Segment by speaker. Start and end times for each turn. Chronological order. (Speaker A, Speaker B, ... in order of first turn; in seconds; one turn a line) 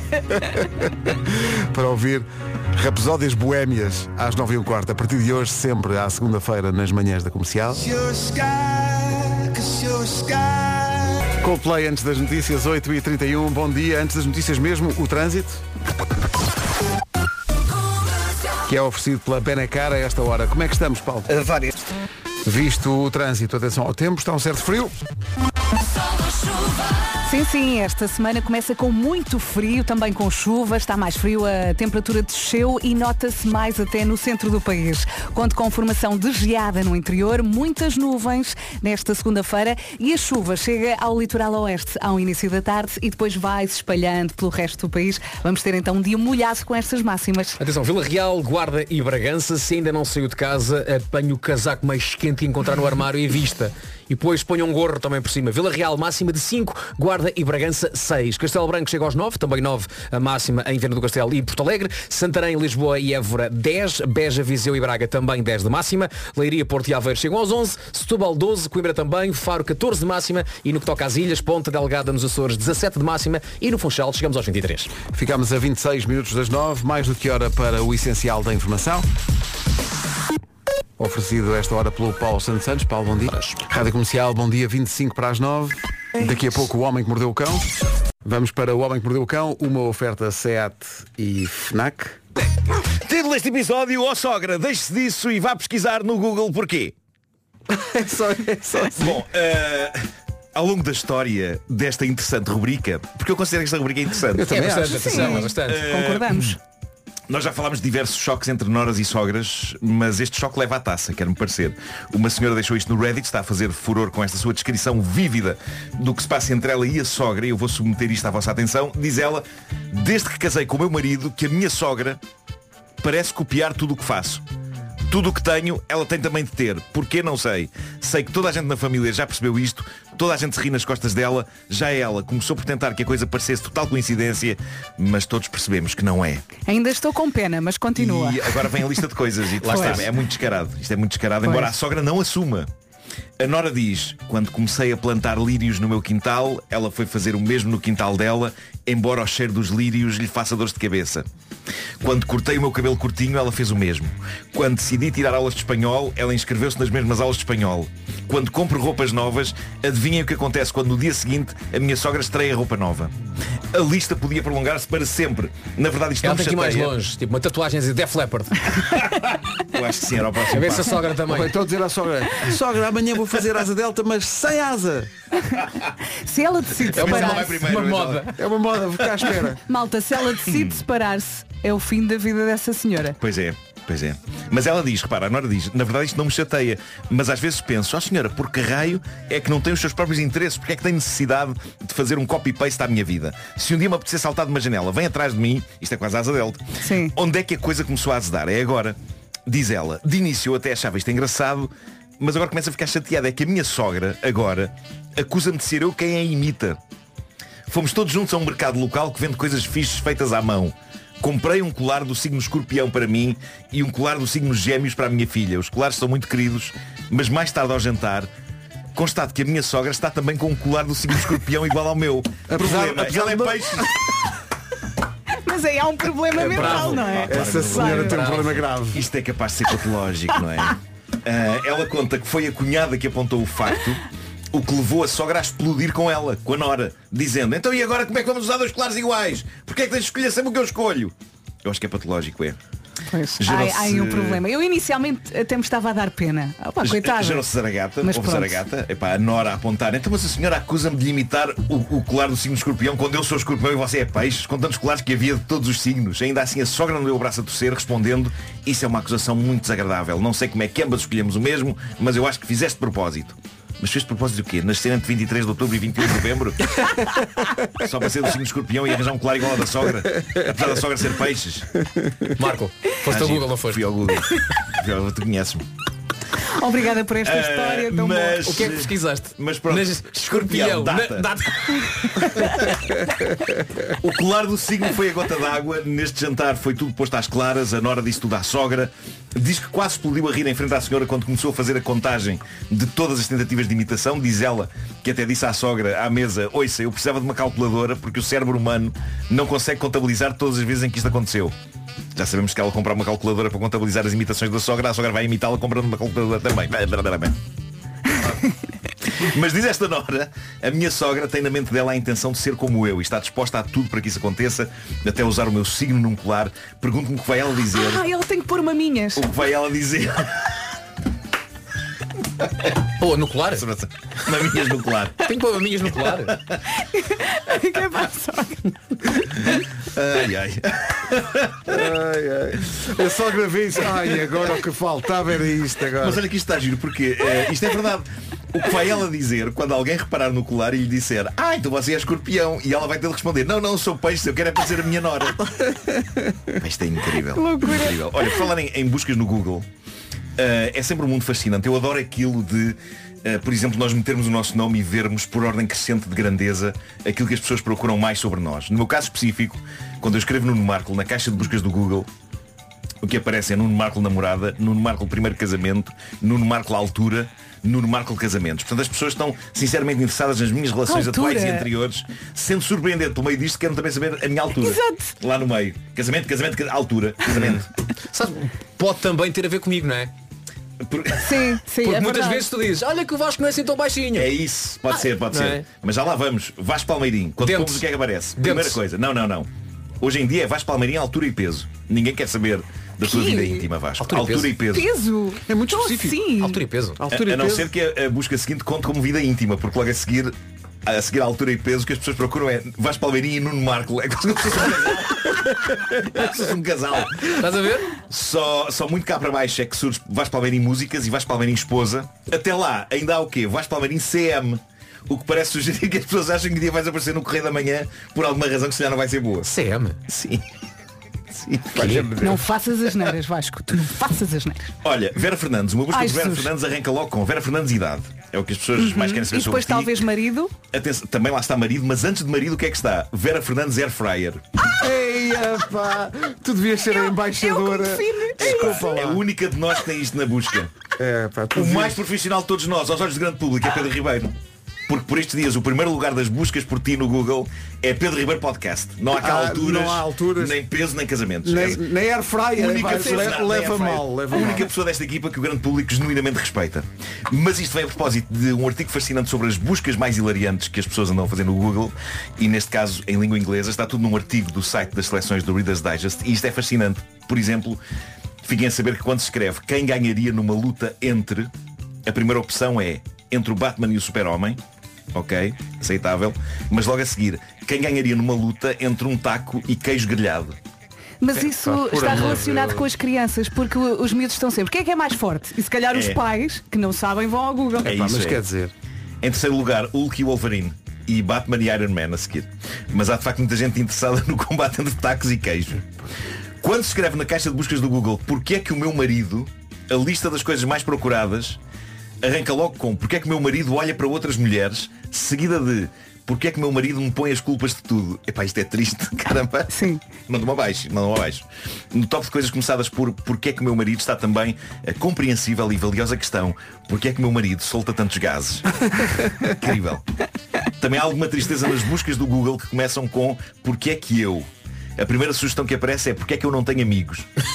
Speaker A: 1.0-7.8
Speaker B: 7.8-11.1
Speaker A: 11.4-15.6
Speaker A: 18.6-21.3
Speaker B: 21.3-21.8
Speaker A: 22.4-25.0
Speaker C: 27.2-47.6
Speaker D: 47.6-74.9
Speaker A: 75.1-79.0
Speaker A: 81.0-87.6
Speaker A: 88.2-92.2
Speaker E: 92.9-96.9
Speaker A: 97.7-99.2
Speaker E: 98.8-106.5
Speaker A: 104.3-105.2
Speaker D: 104.5-105.8
Speaker C: 104.9-106.6
Speaker E: 107.3-122.2
Speaker E: 123.0-124.4
Speaker E: 125.1-136.4
Speaker C: 136.7-138.7
Speaker E: 137.9-142.7
Speaker D: 139.6-140.1
Speaker C: 139.7-140.0
Speaker C: 141.4-141.7
Speaker E: 143.4-151.2
Speaker E: 152.0-163.1
Speaker E: 163.7-166.9
Speaker D: 166.2-168.7
Speaker E: 169.6-171.0
Speaker D: 170.5-171.6
Speaker A: 171.3-175.1
Speaker C: 176.2-177.6
Speaker E: 176.8-178.3
Speaker D: 176.9-178.4
Speaker A: 178.3-179.6
Speaker C: 179.7-183.2
Speaker E: 180.4-180.8
Speaker E: 183.2-206.8
Speaker C: 196.8-197.1
Speaker E: 207.7-218.3
Speaker E: 218.9-224.0
Speaker A: 222.5-223.9
Speaker C: 225.3-228.2
Speaker D: 226.3-228.6
Speaker E: 226.4-228.3
Speaker A: 227.2-229.0
Speaker E: 228.9-234.0
Speaker E: 234.5-242.6
Speaker C: 243.1-247.4
Speaker E: 243.4-244.4
Speaker E: 246.8-267.0
Speaker C: 248.0-248.6
Speaker E: 267.7-271.7
Speaker D: 272.3-273.9
Speaker E: 273.0-275.6
Speaker C: 276.5-278.5
Speaker E: 277.2-281.3
Speaker D: 278.4-282.6
Speaker E: 284.0-301.5
Speaker E: 302.1-307.4
Speaker E: 308.1-308.4
Speaker E: 309.0-318.0
Speaker C: 317.7-319.3
Speaker E: 319.1-320.6
Speaker D: 323.0-323.6
Speaker E: 323.5-325.4
Speaker D: 325.2-326.4
Speaker E: 326.0-326.6
Speaker C: 326.8-328.7
Speaker E: 329.5-331.8
Speaker A: 331.7-336.2
Speaker E: 336.0-345.8
Speaker E: 346.5-349.6
Speaker C: 347.3-348.5
Speaker E: 350.4-362.1
Speaker E: 363.0-377.7
Speaker C: 370.9-371.6
Speaker C: 374.6-375.1
Speaker D: 378.1-380.1
Speaker E: 380.8-381.5
Speaker C: 381.2-382.5
Speaker D: 381.8-384.3
Speaker E: 384.1-389.5
Speaker D: 385.3-385.6
Speaker D: 387.4-388.8
Speaker E: 390.0-394.9
Speaker C: 393.0-393.7
Speaker D: 394.0-394.6
Speaker C: 394.7-396.6
Speaker A: 395.4-396.2
Speaker D: 396.4-397.0
Speaker A: 397.0-397.7
Speaker E: 397.1-400.3
Speaker E: 400.8-407.4
Speaker D: 407.3-407.9
Speaker E: 408.1-419.5
Speaker D: 419.4-420.0
Speaker E: 420.1-420.4
Speaker E: 421.3-422.5
Speaker D: 421.7-422.1
Speaker C: 422.2-424.7
Speaker E: 424.8-429.9
Speaker C: 425.9-426.5
Speaker C: 428.8-430.5
Speaker E: 430.7-434.4
Speaker A: 434.8-439.2
Speaker C: 436.9-438.9
Speaker E: 438.4-440.7
Speaker A: 441.0-442.0
Speaker E: 441.5-444.3
Speaker E: 444.9-451.9
Speaker A: 449.1-450.6
Speaker A: 451.4-454.7
Speaker E: 452.6-467.8
Speaker E: 468.4-471.5
Speaker E: 472.0-474.6
Speaker E: 475.1-480.6
Speaker C: 481.2-488.0
Speaker A: 481.4-482.9
Speaker E: 485.9-486.2
Speaker A: 487.8-488.7
Speaker E: 487.8-488.4
Speaker E: 489.2-495.9
Speaker E: 496.6-501.6
Speaker E: 502.2-520.0
Speaker C: 509.7-510.0
Speaker E: 520.8-527.3